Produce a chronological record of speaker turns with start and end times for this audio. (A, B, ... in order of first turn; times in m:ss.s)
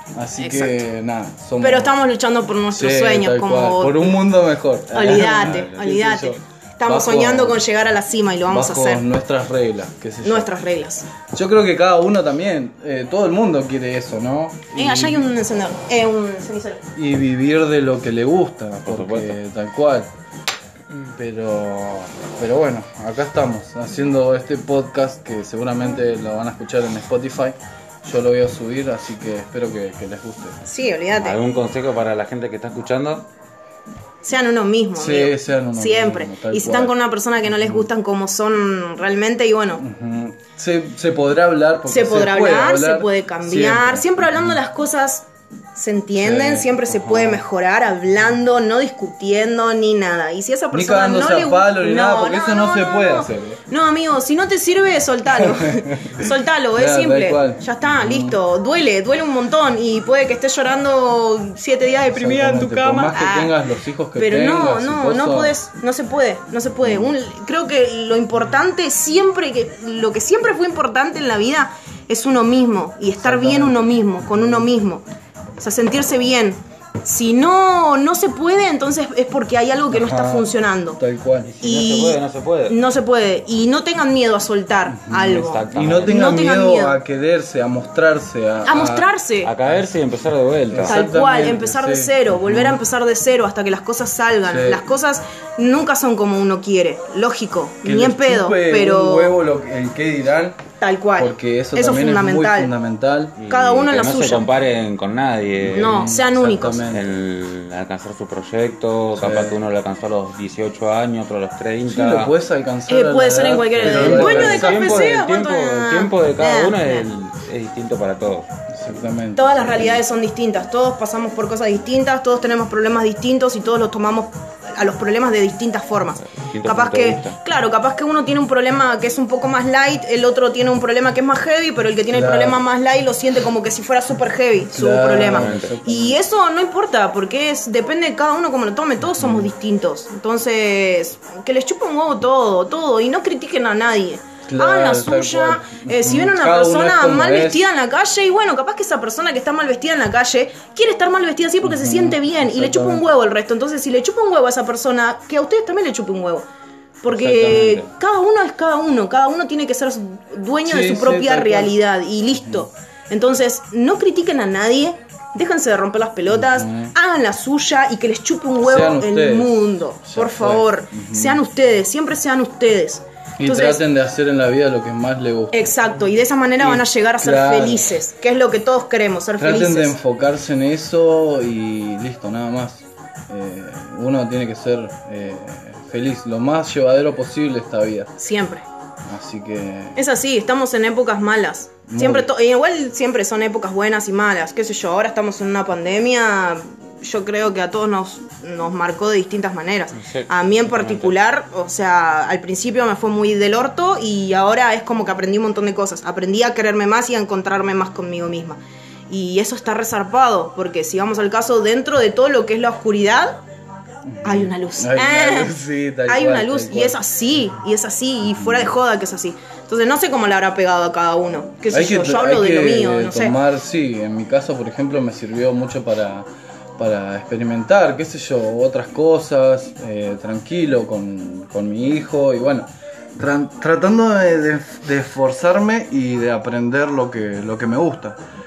0:00.2-0:02.0 A
0:00.4-0:00.8 B
0:01.6-0:04.2 B
0:02.7-0:07.6 A
0:04.9-0:09.0 B
0:05.4-0:05.8 C
0:08.5-0:10.5 A
0:10.2-0:11.0 B
0:11.3-0:15.2 A
0:14.7-0:16.8 B
0:17.0-0:20.1 A
0:18.9-0:19.4 C
0:21.2-0:30.6 A
0:30.6-0:31.4 B
0:31.2-0:33.3 C
0:34.2-0:39.8 B
0:35.0-0:36.9 A
0:37.5-0:37.9 A
0:39.8-0:44.6 A
0:41.9-1:03.6 B
0:46.2-0:47.4 A
0:50.7-0:53.6 A
0:55.8-0:56.2 A
0:56.8-0:58.4 A
1:02.1-1:05.6 A
1:04.2-1:15.0 B
1:13.2-1:14.7 A
1:15.6-1:21.0 B
1:19.9-1:21.5 A
1:21.4-1:22.8 C
1:21.6-1:27.0 B
1:25.0-1:29.1 A
1:25.3-1:26.2 C
1:28.6-1:29.5 B
1:29.4-1:31.0 C
1:30.7-1:32.8 A
1:30.8-1:39.4 B
1:34.4-1:34.8 A
1:37.8-1:40.6 A
1:40.8-1:42.7 B
1:41.2-1:43.4 A
1:43.4-1:46.2 C
1:43.5-1:44.5 B
1:45.6-1:47.2 A
1:45.7-1:46.9 B
1:46.9-1:52.3 C
1:49.2-1:49.6 A
1:51.9-1:55.2 A
1:52.9-1:57.1 B
1:53.7-1:58.5 C
1:58.7-2:00.0 A
1:59.4-2:36.4 B
2:06.4-2:07.4 C
2:12.1-2:12.6 A
2:14.7-2:16.2 A
2:15.3-2:15.8 C
2:19.2-2:19.5 A
2:24.5-2:27.6 A
2:31.6-2:33.1 A
2:37.0-2:53.8 B
2:37.1-2:37.9 C
2:37.5-2:37.8 A
2:40.6-2:41.7 A
2:42.4-2:42.6 A
2:46.3-2:46.9 A
2:48.6-2:51.4 A
2:53.4-2:55.7 A
2:55.5-3:00.0 B
2:56.6-2:57.9 A
2:59.4-3:08.1 A
3:08.2-3:08.6 B
3:09.1-3:10.0 A
3:10.0-3:33.4 B
3:11.9-3:12.3 A
3:19.9-3:21.1 C
3:34.1-3:37.0 A
3:34.2-3:35.6 B
3:36.1-3:43.4 B
3:38.2-3:38.7 A
3:41.7-3:46.3 A
3:46.8-3:58.2 A